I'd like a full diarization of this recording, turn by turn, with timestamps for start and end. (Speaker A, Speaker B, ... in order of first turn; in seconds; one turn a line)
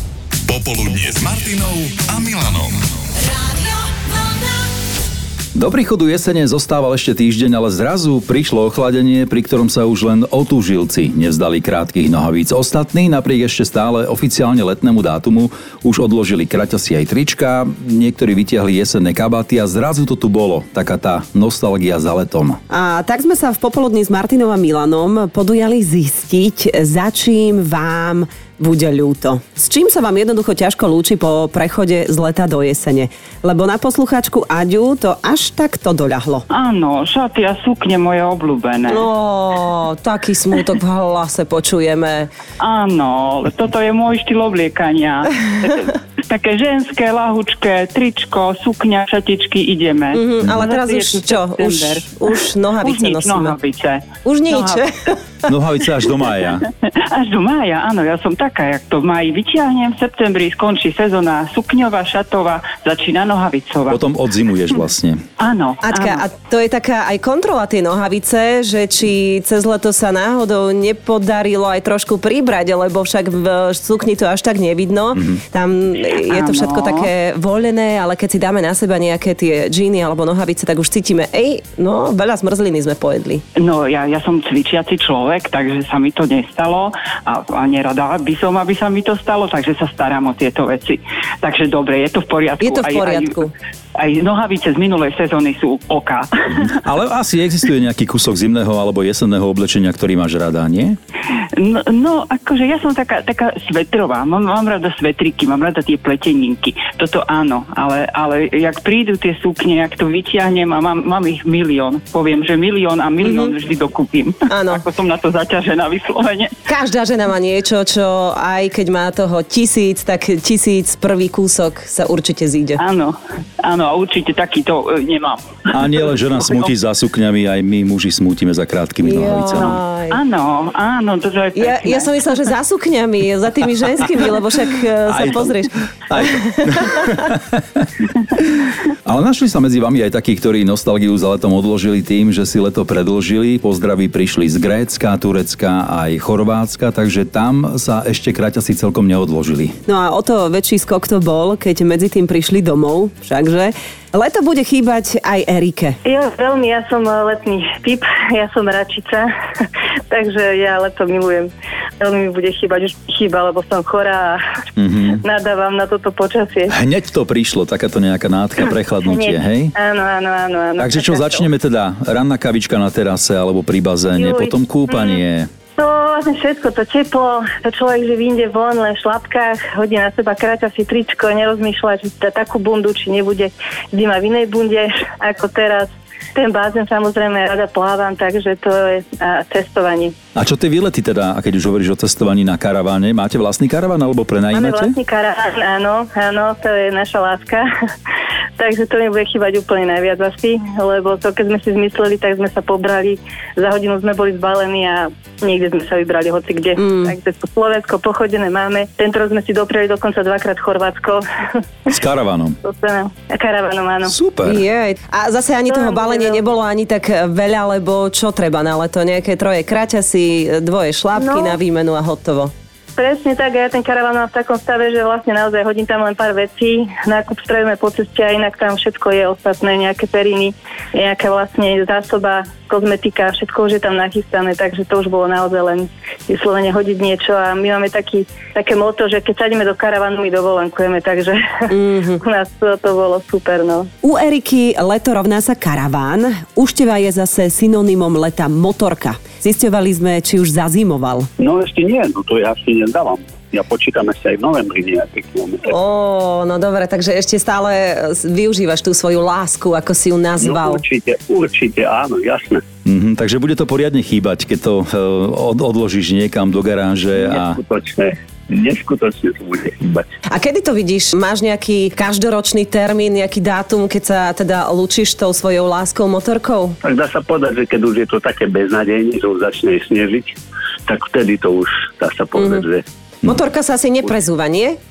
Speaker A: 0.5-2.8
Speaker B: 5.5-22.6
Speaker C: 22.7-36.5
Speaker D: 36.5-39.0
Speaker C: 38.9-42.3
Speaker D: 42.6-52.1
Speaker C: 50.1-53.6
Speaker D: 52.8-54.8
Speaker C: 54.2-55.2
Speaker B: 55.5-56.7
Speaker D: 56.9-64.0
Speaker B: 63.9-65.2
Speaker D: 65.4-66.2
Speaker C: 65.8-83.4
Speaker D: 76.3-77.1
Speaker D: 83.6-93.4
Speaker C: 92.6-93.5
Speaker D: 94.0-96.7
Speaker B: 96.5-101.0
Speaker D: 101.6-116.6
Speaker C: 113.2-113.5
Speaker C: 114.5-114.8
Speaker C: 116.7-122.8
Speaker D: 122.8-126.7
Speaker B: 125.7-129.8
Speaker C: 129.0-130.2
Speaker D: 129.5-132.1
Speaker C: 131.6-137.0
Speaker B: 135.1-149.8
Speaker C: 149.9-156.0
Speaker E: 156.1-159.3
Speaker E: 160.1-164.4
Speaker B: 164.8-165.2
Speaker E: 165.2-166.7
Speaker B: 166.7-169.8
Speaker E: 169.0-171.5
Speaker B: 170.8-175.5
Speaker E: 174.2-175.2
Speaker E: 175.8-190.1
Speaker B: 190.4-195.0
Speaker E: 194.5-197.7
Speaker E: 198.6-211.2
Speaker C: 206.8-207.2
Speaker B: 211.9-212.6
Speaker E: 212.6-214.2
Speaker B: 214.1-214.6
Speaker C: 214.4-222.5
Speaker E: 215.7-216.4
Speaker E: 221.2-221.6
Speaker E: 223.0-241.7
Speaker C: 241.7-242.2
Speaker E: 242.2-243.9
Speaker C: 244.0-251.3
Speaker F: 251.4-255.8
Speaker C: 255.7-260.8
Speaker F: 260.4-262.6
Speaker B: 262.9-267.6
Speaker F: 267.2-270.1
Speaker C: 270.3-276.8
Speaker F: 276.8-280.4
Speaker F: 280.9-282.8
Speaker C: 282.4-282.6
Speaker C: 283.2-284.8